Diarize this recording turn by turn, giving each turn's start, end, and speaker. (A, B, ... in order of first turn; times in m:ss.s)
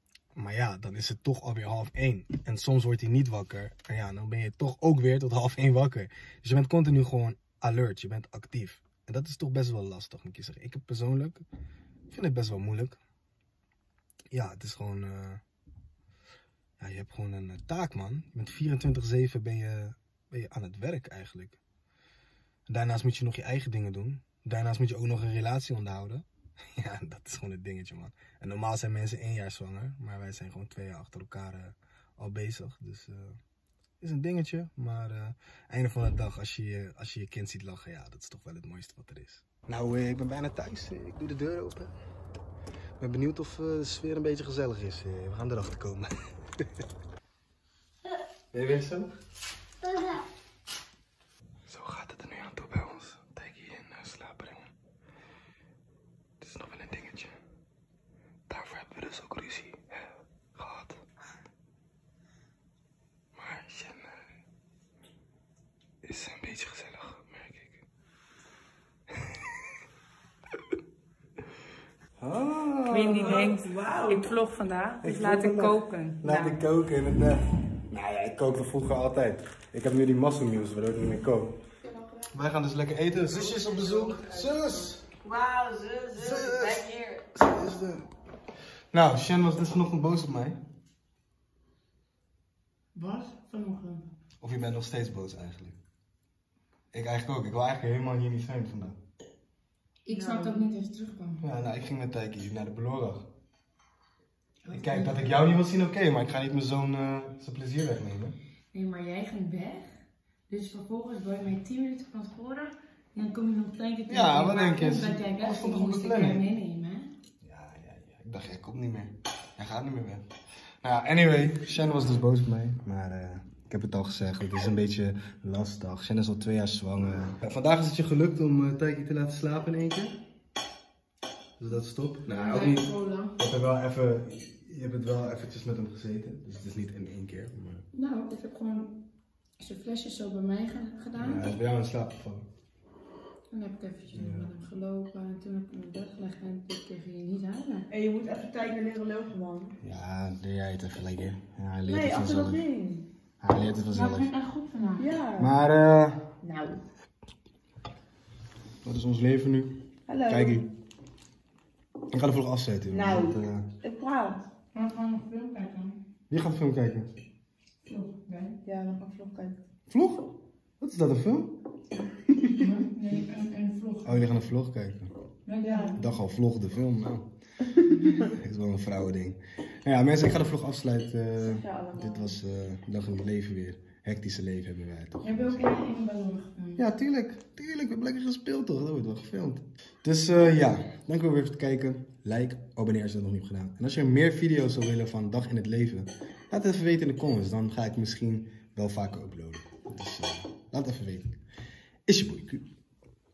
0:00.4-0:11.4 A
0:12.1-0:13.0 A
0:14.3-0:15.4 A
0:16.8-0:21.6 A
0:22.7-0:26.2 A
0:26.8-0:33.4 A
0:34.0-0:41.9 A
0:43.0-0:46.6 A
0:48.5-0:49.1 A
0:51.7-0:54.7 A
0:56.4-0:57.4 A
0:58.5-1:01.0 A
1:03.4-1:04.2 A
1:06.0-1:07.8 A
1:12.2-1:13.4 A
1:12.9-1:16.6 B
1:13.2-1:14.2 C
1:15.0-1:21.6 A
1:21.8-1:22.3 C
1:22.3-1:25.0 A
1:23.4-1:24.6 C
1:25.3-1:26.1 C
1:25.4-1:27.2 B
1:26.1-1:28.1 A
1:28.9-1:30.6 A
1:33.0-1:34.1 B
1:34.4-1:35.8 A
1:36.9-1:39.0 A
1:40.1-1:41.4 B
1:40.1-1:40.6 C
1:41.4-1:43.3 A
1:44.6-1:45.2 B
1:44.7-1:48.4 A
1:48.7-1:50.0 B
1:50.5-1:57.1 B
1:54.1-1:56.4 A
1:57.4-2:00.3 A
2:00.8-2:10.2 A
2:11.6-2:17.9 A
2:12.3-2:13.4 B
2:17.9-2:18.9 B
2:19.6-2:21.4 B
2:21.2-2:22.5 A
2:23.5-2:27.9 B
2:24.1-2:24.5 A
2:27.9-2:29.8 C
2:29.8-2:32.7 A
2:31.8-2:33.0 C
2:33.4-2:34.3 A
2:33.9-2:35.1 B
2:35.0-2:35.5 C
2:35.4-2:36.2 A
2:36.4-2:36.8 C
2:38.8-2:40.7 A
2:40.1-2:40.7 C
2:42.1-2:43.7 A
2:42.9-2:44.4 C
2:44.7-2:46.0 B
2:46.3-2:47.1 A
2:47.8-2:48.6 B
2:48.6-2:49.6 C
2:49.9-2:50.3 A
2:50.8-2:51.5 A
2:52.5-2:54.2 B
2:54.0-2:55.1 A
2:55.5-2:56.0 B
2:55.6-2:56.0 C
2:56.0-2:57.3 A
2:57.9-2:58.2 B
2:58.1-3:05.7 A
3:01.4-3:02.3 C
3:05.2-3:06.8 B
3:06.8-3:21.4 A
3:22.1-3:22.7 A